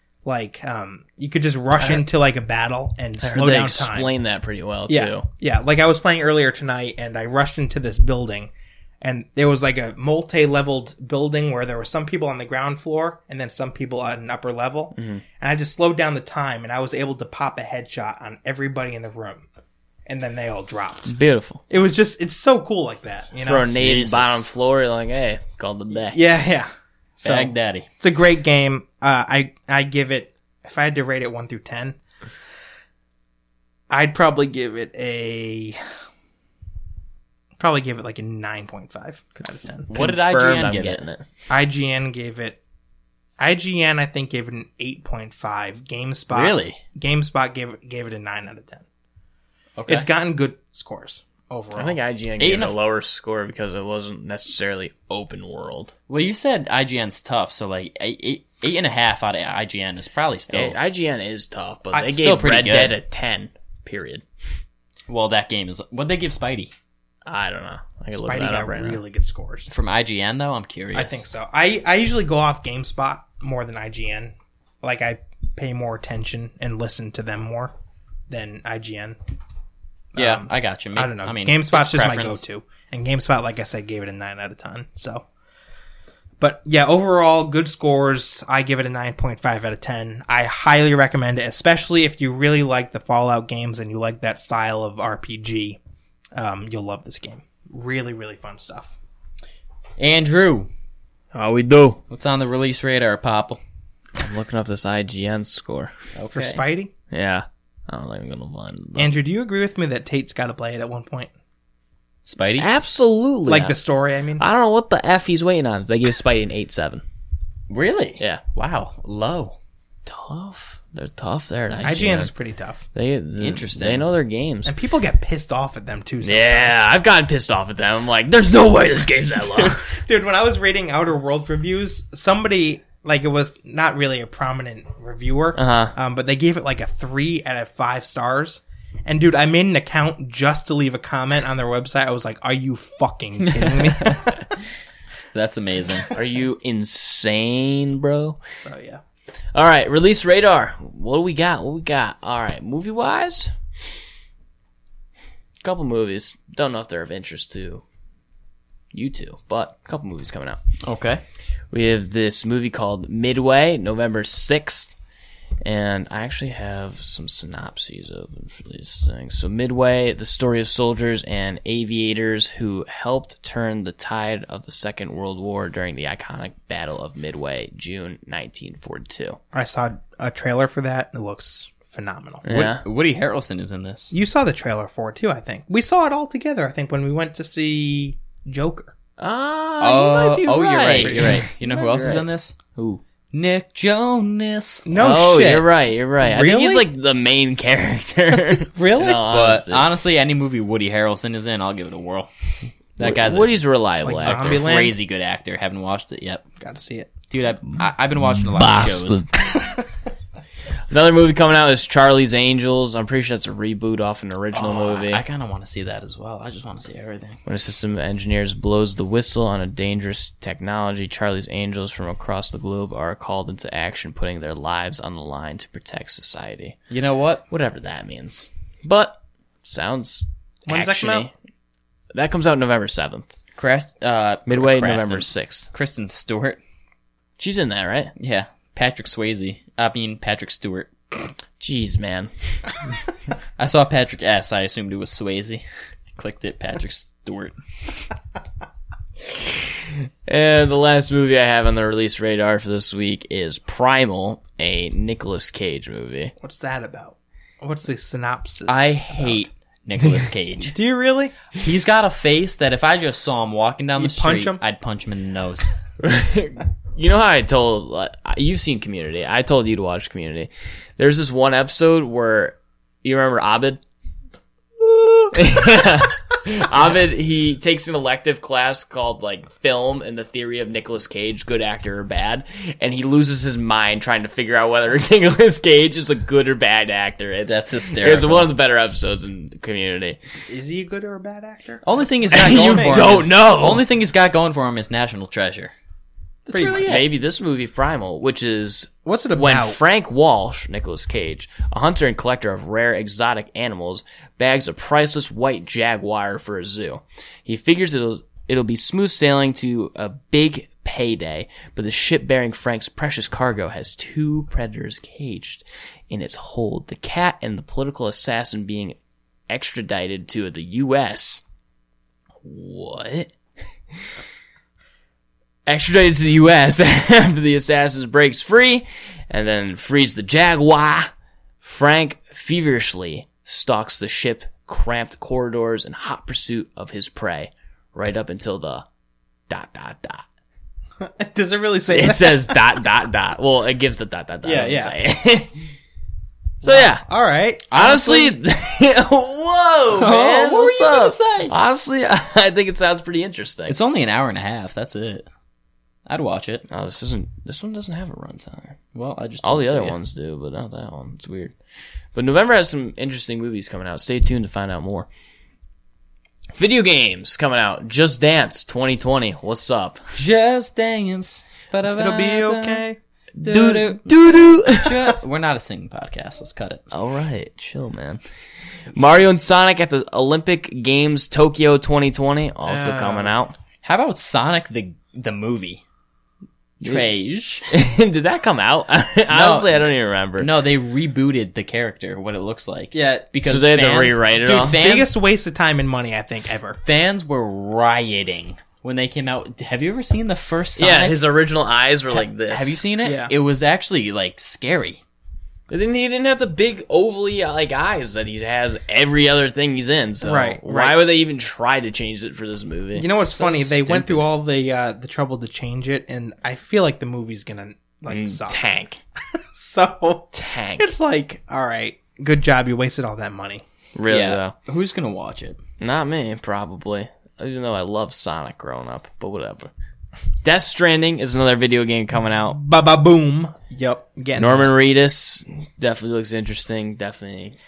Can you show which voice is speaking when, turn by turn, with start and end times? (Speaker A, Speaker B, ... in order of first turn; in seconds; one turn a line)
Speaker A: 0.2-4.1
Speaker B: 3.2-5.3
Speaker A: 4.9-8.5
Speaker A: 9.0-19.5
Speaker B: 14.9-15.2
Speaker A: 20.1-21.1
Speaker B: 21.1-21.6
Speaker A: 21.7-23.8
Speaker B: 23.4-26.2
Speaker C: 23.7-24.4
Speaker A: 25.9-32.0
Speaker C: 27.2-27.9
Speaker A: 33.9-35.8
Speaker A: 37.6-39.9
Speaker B: 39.9-41.2
Speaker C: 39.9-41.0
Speaker A: 41.5-42.6
Speaker A: 43.4-48.9
Speaker C: 46.3-46.8
Speaker C: 49.8-50.1
Speaker A: 49.9-52.0
Speaker B: 51.8-56.0
Speaker C: 52.4-52.8
Speaker C: 56.1-60.8
Speaker B: 60.5-64.2
Speaker C: 62.1-63.0
Speaker C: 65.1-66.7
Speaker B: 67.3-69.0
Speaker A: 68.2-69.7
Speaker C: 69.7-71.2
Speaker A: 70.9-77.7
Speaker A: 78.3-79.2
Speaker A: 80.2-85.3
Speaker C: 80.2-82.4
Speaker A: 86.4-95.8
Speaker A: 96.3-98.9
Speaker C: 100.0-100.7
Speaker B: 101.3-102.0
Speaker C: 102.1-103.6
Speaker B: 104.2-105.9
Speaker C: 106.2-106.6
Speaker A: 106.3-106.9
Speaker B: 107.1-109.1
Speaker A: 109.0-111.3
Speaker C: 112.2-112.7
Speaker B: 112.6-113.8
Speaker A: 113.5-114.4
Speaker B: 114.4-117.0
Speaker C: 117.7-119.6
Speaker B: 120.1-122.3
Speaker A: 121.8-122.8
Speaker B: 123.0-124.8
Speaker C: 123.4-124.1
Speaker A: 124.7-126.9
Speaker B: 126.2-130.0
Speaker A: 129.6-144.5
Speaker B: 135.6-135.9
Speaker C: 143.5-144.4
Speaker C: 145.3-146.1
Speaker B: 146.1-148.4
Speaker A: 148.6-149.0
Speaker B: 149.5-153.6
Speaker B: 155.6-157.8
Speaker B: 158.9-160.6
Speaker C: 160.8-161.2
Speaker B: 161.7-165.0
Speaker B: 165.6-179.4
Speaker A: 179.5-182.5
Speaker B: 182.4-182.8
Speaker C: 182.5-184.1
Speaker A: 184.1-188.9
Speaker B: 189.2-192.2
Speaker C: 189.8-192.6
Speaker A: 191.0-192.2
Speaker B: 192.8-193.0
Speaker C: 193.3-194.9
Speaker A: 194.9-195.7
Speaker B: 194.9-199.9
Speaker A: 196.2-196.9
Speaker A: 198.7-199.3
Speaker C: 199.2-202.3
Speaker C: 203.0-203.5
Speaker B: 203.0-204.6
Speaker A: 204.0-204.9
Speaker C: 204.2-206.4
Speaker A: 206.6-207.1
Speaker C: 207.3-209.2
Speaker B: 208.3-209.7
Speaker B: 210.9-215.2
Speaker C: 214.5-217.4
Speaker B: 217.4-226.8
Speaker C: 226.9-227.4
Speaker B: 227.5-231.3
Speaker A: 230.7-231.3
Speaker B: 232.1-233.3
Speaker C: 233.6-236.6
Speaker B: 234.5-235.7
Speaker B: 237.4-238.1
Speaker C: 238.2-240.9
Speaker B: 241.6-242.8
Speaker C: 243.6-247.6
Speaker B: 249.3-256.3
Speaker A: 256.4-259.4
Speaker C: 258.7-260.8
Speaker A: 260.6-261.4
Speaker C: 261.5-265.7
Speaker A: 264.0-264.6
Speaker B: 266.0-273.8
Speaker B: 274.8-290.2
Speaker C: 287.5-288.5
Speaker A: 290.5-293.2
Speaker C: 291.8-295.7
Speaker B: 292.3-293.9
Speaker C: 296.5-297.1
Speaker A: 296.5-297.0
Speaker B: 296.8-319.0
Speaker A: 299.1-299.8
Speaker B: 319.5-321.4
Speaker B: 322.4-323.3
Speaker B: 325.7-331.1
Speaker B: 331.6-338.9
Speaker B: 339.5-340.2
Speaker A: 341.0-342.6
Speaker B: 341.9-345.5
Speaker A: 344.4-344.9
Speaker B: 346.6-347.0
Speaker A: 346.6-347.8
Speaker B: 347.7-353.8
Speaker C: 347.7-348.4
Speaker C: 349.9-351.5
Speaker C: 353.7-355.3
Speaker C: 356.1-356.6
Speaker B: 356.7-358.8
Speaker C: 358.9-360.0
Speaker B: 359.4-361.6
Speaker B: 362.1-365.1
Speaker B: 366.6-370.1
Speaker C: 370.1-372.9
Speaker A: 371.9-373.0
Speaker C: 373.4-374.1
Speaker B: 373.4-375.2
Speaker C: 374.7-376.8
Speaker B: 376.9-378.2
Speaker B: 378.9-383.6
Speaker A: 382.6-383.4
Speaker C: 383.8-385.8
Speaker C: 386.8-387.7
Speaker B: 387.7-390.5
Speaker C: 389.3-395.1
Speaker A: 392.9-393.3
Speaker B: 393.4-394.8
Speaker A: 394.6-396.8
Speaker C: 396.8-401.2
Speaker B: 400.8-402.8
Speaker C: 402.5-405.0
Speaker A: 403.0-403.3
Speaker B: 405.7-413.1
Speaker A: 410.2-411.0
Speaker A: 413.0-418.6
Speaker C: 413.2-414.2
Speaker B: 418.1-419.0
Speaker A: 419.3-423.6
Speaker B: 420.3-420.9
Speaker B: 423.9-424.5
Speaker C: 424.1-425.6
Speaker B: 425.8-429.7
Speaker B: 430.4-432.6
Speaker A: 432.5-434.7
Speaker B: 434.4-437.6